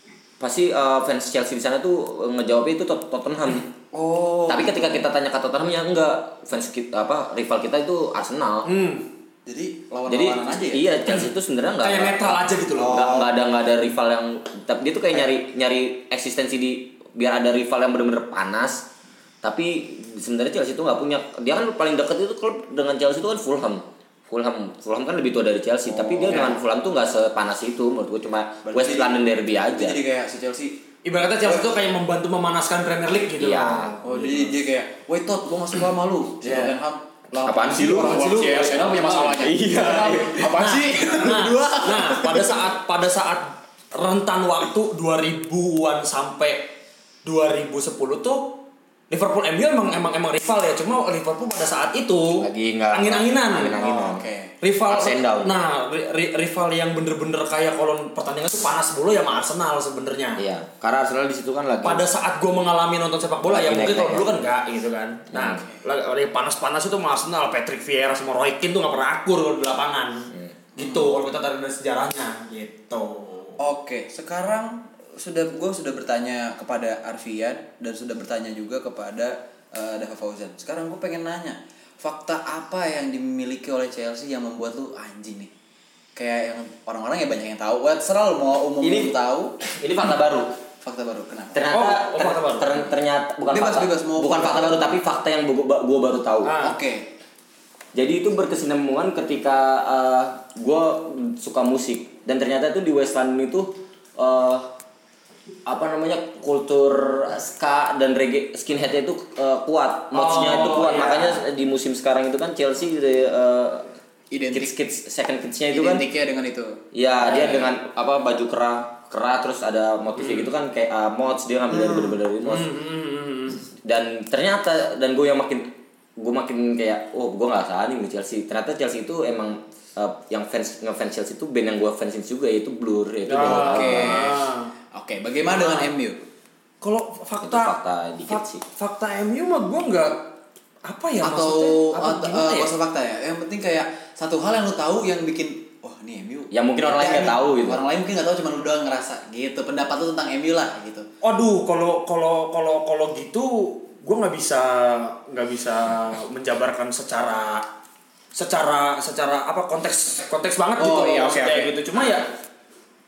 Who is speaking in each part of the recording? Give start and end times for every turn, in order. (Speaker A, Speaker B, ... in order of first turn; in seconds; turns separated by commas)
Speaker A: 0.4-3.7, Speaker B: 3.9-5.0, Speaker A: 4.5-8.7, Speaker C: 8.7-9.0, Speaker B: 9.5-10.9, Speaker A: 10.1-18.9, Speaker C: 11.8-13.3, Speaker A: 19.4-30.0, Speaker C: 26.3-26.6, Speaker B: 28.6-30.8, Speaker C: 31.0-34.5, Speaker A: 33.4-34.0, Speaker B: 34.0-42.5, Speaker C: 36.4-36.7, Speaker A: 37.4-40.5, Speaker C: 37.7-46.7, Speaker C: 47.2-48.6, Speaker C: 49.1-53.9, Speaker A: 52.4-54.2, Speaker B: 53.8-54.5, Speaker C: 54.6-60.4, Speaker A: 54.9-55.5, Speaker A: 60.4-62.0, Speaker C: 61.8-73.6, Speaker A: 63.5-64.4, Speaker A: 65.3-65.6, Speaker B: 70.8-71.1, Speaker B: 73.6-85.5, Speaker B: 86.2-89.5, Speaker A: 88.8-90.5, Speaker B: 90.8-91.7, Speaker A: 91.5-96.5, Speaker C: 91.7-92.7, Speaker B: 93.5-95.0, Speaker C: 96.4-96.8, Speaker B: 96.6-97.0, Speaker A: 97.9-104.7, Speaker A: 105.7-113.9, Speaker C: 110.1-111.4, Speaker B: 114.3-114.7, Speaker A: 114.5-116.1, Speaker B: 115.7-116.8, Speaker A: 116.9-122.7, Speaker B: 121.7-122.2, Speaker C: 122.5-123.6, Speaker A: 123.8-134.3, Speaker C: 133.3-134.7, Speaker B: 133.4-136.2, Speaker C: 135.5-135.9, Speaker C: 136.8-137.8, Speaker A: 137.4-138.6, Speaker C: 138.3-140.3, Speaker C: 140.8-142.7, Speaker B: 141.2-151.1, Speaker A: 146.5-147.8, Speaker C: 151.2-157.7, Speaker C: 158.3-162.3, Speaker B: 160.8-162.1